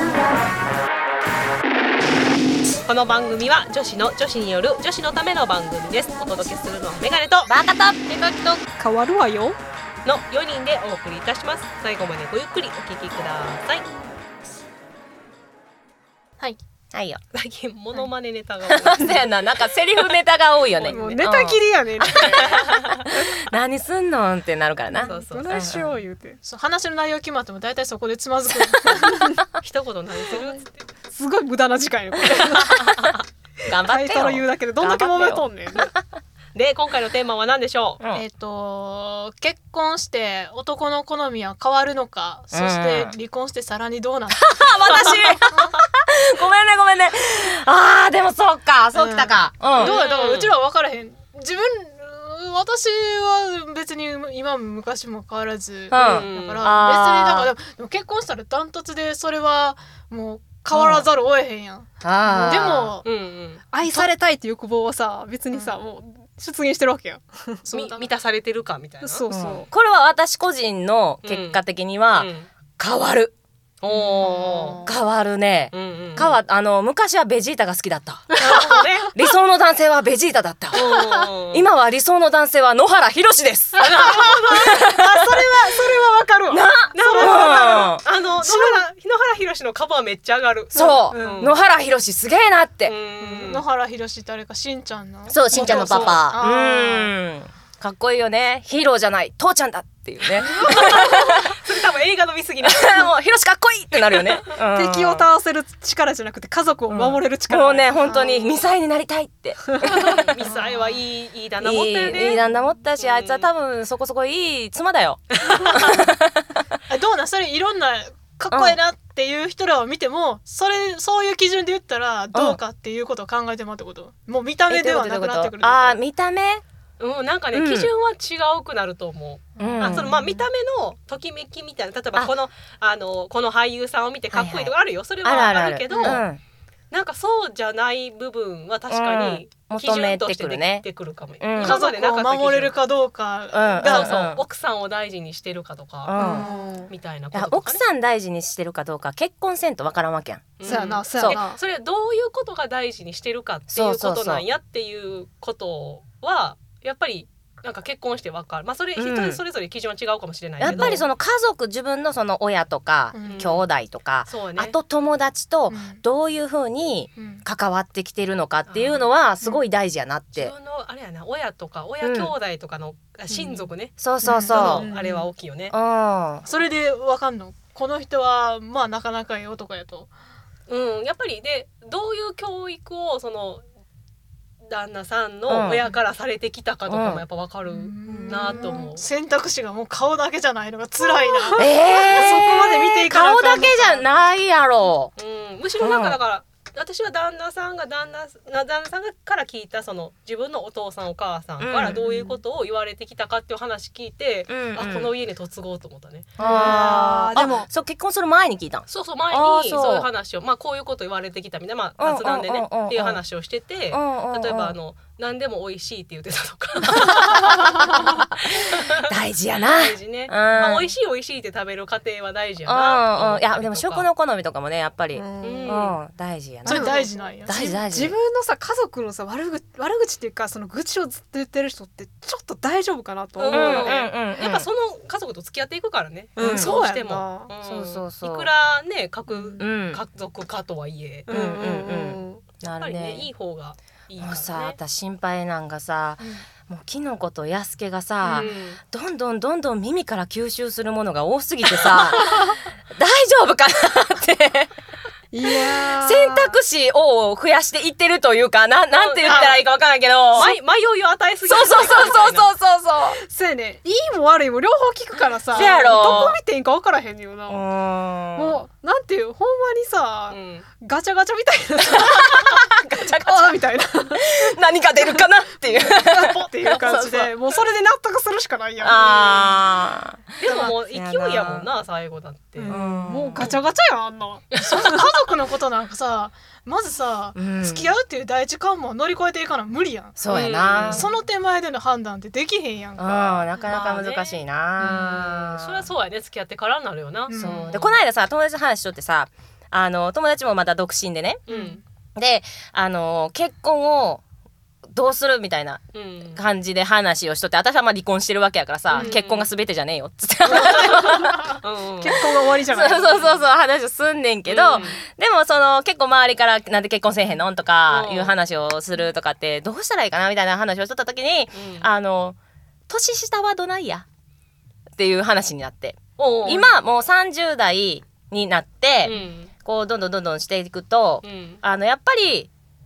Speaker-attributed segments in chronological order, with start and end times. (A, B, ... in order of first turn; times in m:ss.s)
0:02.9-0:07.5 A
0:07.5-0:08.6 B
0:08.8-0:09.6 C
0:10.0-0:13.9 A
0:16.9-0:17.2 B
0:17.3-0:19.4 A
0:18.7-0:25.9 B
0:20.7-0:21.2 A
0:20.8-0:22.7 C
0:22.3-0:22.8 A
0:24.9-0:26.4 C
0:25.0-0:25.5 A
0:26.4-0:29.3 D
0:28.7-0:29.4 C
0:29.6-0:30.7 A
0:30.3-0:30.6 C
0:31.1-0:33.0 C
0:33.7-0:35.9 B
0:33.8-0:35.9 C
0:36.6-0:38.0 A
0:38.1-0:45.8 D
0:42.5-0:43.2 B
0:44.3-0:50.0 B
0:49.0-1:01.9 D
0:49.8-0:50.5 A
0:55.9-0:57.5 B
0:55.9-0:56.7 A
1:00.7-1:01.1 B
1:02.0-1:02.9 B
1:02.3-1:02.9 C
1:02.4-1:03.1 D
1:03.0-1:03.6 A
1:03.7-1:07.6 C
1:03.8-1:04.1 D
1:07.6-1:08.1 D
1:07.7-1:09.2 A
1:09.0-1:09.7 C
1:09.3-1:13.3 B
1:11.2-1:11.6 A
1:12.1-1:12.5 A
1:13.8-1:14.8 A
1:14.2-1:14.8 C
1:14.8-1:18.4 B
1:15.7-1:16.4 A
1:18.4-1:19.2 A
1:19.1-1:23.8 B
1:20.7-1:21.7 A
1:23.8-1:24.7 A
1:23.8-1:28.8 D
1:24.5-1:25.4 B
1:26.5-1:28.0 B
1:26.9-1:31.6 A
1:30.7-1:32.9 B
1:30.8-1:31.5 C
1:32.8-1:33.6 A
1:33.2-1:37.1 D
1:35.3-1:41.6 B
1:35.5-1:36.2 C
1:35.8-1:36.1 A
1:40.6-1:43.1 A
1:42.6-1:45.3 B
1:43.9-1:44.4 A
1:44.7-1:48.2 C
1:46.9-1:50.1 B
1:48.1-1:48.6 A
1:49.8-1:52.4 A
1:50.4-1:51.0 D
1:51.6-1:56.6 B
1:53.0-1:53.5 A
1:56.9-2:06.0 D
1:58.5-1:58.8 B
2:02.3-2:02.6 B
2:04.7-2:06.6 B
2:07.0-2:16.3 A
2:07.5-2:07.9 B
2:09.6-2:10.4 D
2:09.6-2:10.1 B
2:14.3-2:16.4 B
2:15.9-2:16.2 D
2:16.9-2:22.8 A
2:18.9-2:20.8 B
2:21.4-2:21.8 B
2:21.6-2:24.1 D
2:23.5-2:24.4 B
2:23.8-2:27.8 A
2:26.0-2:26.5 B
2:26.2-2:26.9 C
2:27.3-2:31.4 B
2:30.6-2:41.0 A
2:30.6-2:31.6 C
2:33.7-2:34.4 B
2:39.0-2:39.4 B
2:40.6-2:50.5 B
2:40.7-2:41.0 C
2:43.1-2:43.5 D
2:43.2-2:43.7 A
2:44.3-2:44.8 A
2:45.7-2:46.0 D
2:47.2-2:47.4 D
2:48.7-2:49.1 A
2:50.3-2:54.0 A
2:52.0-2:52.3 B
2:54.0-2:54.9 B
2:54.2-2:55.2 D
2:54.2-2:55.3 C
2:54.5-2:55.7 A
2:55.7-2:56.4 B
2:56.4-3:00.1 D
3:00.7-3:03.6 A
3:04.6-3:09.0 A
3:05.5-3:05.8 B
3:06.9-3:07.2 B
3:07.7-3:14.0 D
3:08.0-3:08.9 C
3:11.0-3:14.0 C
3:11.6-3:15.1 B
3:15.2-3:26.8 A
3:15.8-3:16.2 B
3:21.6-3:22.1 B
3:24.5-3:25.1 B
3:26.4-3:30.1 B
3:26.4-3:27.7 C
3:28.9-3:39.0 A
3:32.0-3:33.2 B
3:33.9-3:34.8 B
3:37.8-3:38.2 B
3:39.0-3:40.9 B
3:39.6-3:44.1 A
3:42.7-3:48.2 B
3:45.1-3:45.9 C
3:45.4-3:46.0 A
3:46.7-3:47.7 D
3:46.7-3:54.0 C
3:53.4-4:01.3 A
3:53.5-3:54.7 B
3:56.4-3:57.5 C
3:56.4-3:56.7 B
3:57.6-3:58.5 B
3:59.3-3:59.6 C
3:59.6-4:00.0 B
4:01.3-4:02.4 C
4:01.3-4:03.3 B
4:02.6-4:04.8 A
4:04.2-4:14.7 B
4:06.2-4:06.4 D
4:08.2-4:08.5 C
4:08.3-4:08.8 A
4:15.3-4:16.6 C
4:15.9-4:20.6 B
4:18.9-4:19.6 A
4:20.4-4:22.5 A
4:21.4-4:23.2 B
4:21.8-4:22.1 C
4:23.1-4:27.6 C
4:25.5-4:26.4 B
4:25.6-4:25.9 A
4:27.5-4:28.6 B
4:28.4-4:34.4 C
4:30.3-4:30.6 A
4:31.9-4:37.3 B
4:35.0-4:39.2 C
4:38.8-4:41.7 B
4:38.9-4:39.6 A
4:40.4-4:42.8 A
4:42.6-4:44.5 C
4:42.7-4:43.5 B
4:44.5-4:44.9 A
4:44.6-4:50.2 D
4:47.4-4:47.9 B
4:50.2-4:51.1 B
4:50.3-4:51.1 A
4:50.9-4:53.5 D
4:53.0-4:55.9 B
4:53.7-4:58.0 A
4:57.3-4:57.8 D
4:57.4-5:01.4 B
5:01.5-5:01.8 A
5:01.5-5:01.8 D
5:02.2-5:04.2 B
5:04.9-5:11.4 B
5:05.9-5:06.4 A
5:08.9-5:09.5 A
5:10.5-5:13.2 C
5:10.5-5:10.9 A
5:11.6-5:12.2 A
5:12.7-5:22.4 B
5:12.8-5:13.5 A
5:14.5-5:15.0 A
5:17.9-5:18.3 A
5:21.5-5:21.9 A
5:22.9-5:24.1 B
5:25.0-5:32.5 B
5:26.2-5:26.7 A
5:29.0-5:29.5 A
5:31.2-5:31.6 A